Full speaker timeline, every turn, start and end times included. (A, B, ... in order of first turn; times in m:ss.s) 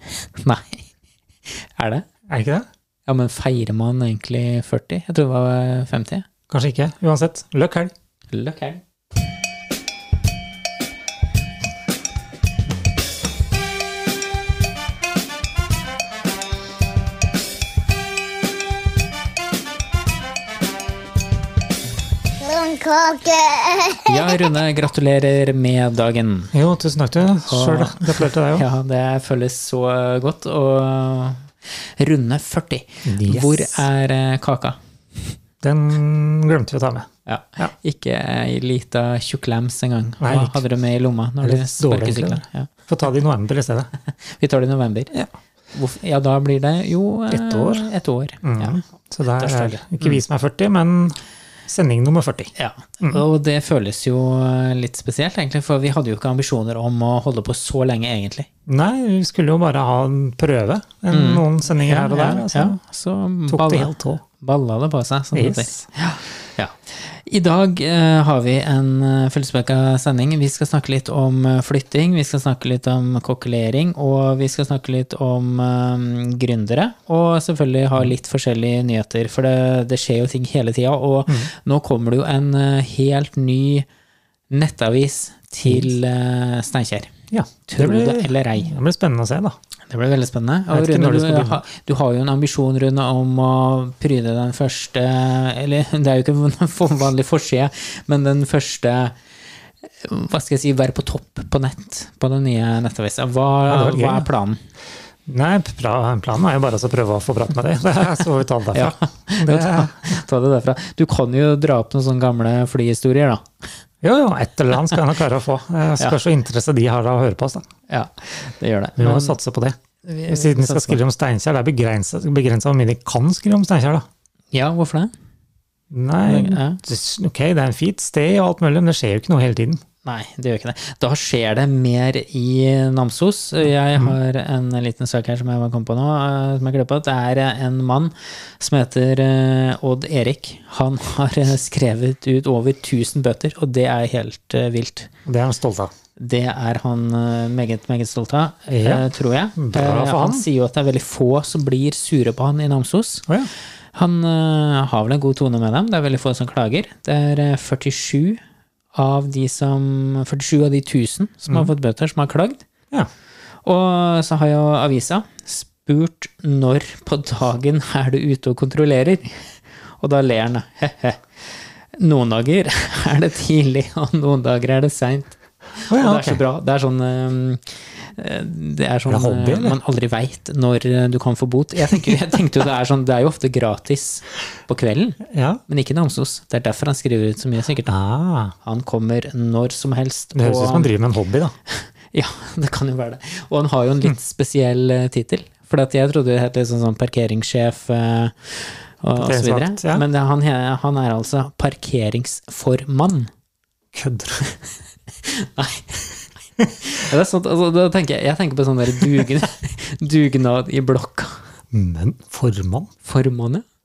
0:00.2-0:00.9 A
0:01.5-0:02.1 A
0:02.3-0:02.7 B
0:03.1-0:06.3 A
0:06.5-0:07.9 B
0:08.3-0:08.8 A
0:22.4-0:24.5 C
0:24.1-0:26.5 A
0:26.5-0:28.7 B
0:27.5-0:34.8 A
0:33.1-0:33.8 B
0:35.6-0:37.7 B
0:37.3-0:42.7 A
0:40.2-0:40.6 B
0:41.4-0:43.9 B
0:44.2-0:45.1 A
0:45.7-0:48.8 A
0:47.3-0:47.9 B
0:48.4-0:53.2 B
0:49.4-0:50.2 A
0:52.6-0:58.5 A
0:58.7-1:02.8 B
1:01.1-1:23.9 A
1:03.5-1:04.2 B
1:05.3-1:05.8 B
1:24.5-1:27.1 A
1:27.3-1:29.6 B
1:27.7-1:28.7 A
1:29.9-1:39.2 A
1:30.7-1:31.6 B
1:40.0-1:44.6 A
1:43.7-1:44.3 B
1:45.3-1:50.2 B
1:48.7-1:53.5 A
1:54.0-1:57.7 B
1:57.9-1:59.4 A
1:59.0-1:59.8 B
2:00.0-2:01.0 A
2:00.3-2:04.1 B
2:04.5-2:05.1 A
2:05.9-2:09.8 B
2:06.2-2:06.8 A
2:10.0-2:25.1 A
2:25.3-2:25.9 B
2:26.2-2:33.3 A
2:28.7-2:30.5 B
2:33.9-2:38.4 A
2:38.9-2:42.6 A
2:43.6-3:07.9 A
2:55.9-2:56.4 B
2:59.1-2:59.8 B
3:05.3-3:05.6 B
3:07.9-3:08.5 B
3:08.6-3:10.9 A
3:10.4-3:11.6 B
3:11.7-3:23.3 A
3:19.2-3:20.0 B
3:23.9-3:24.5 B
3:25.1-3:26.1 A
3:26.6-3:31.4 A
3:31.7-3:32.9 B
3:33.0-3:33.6 A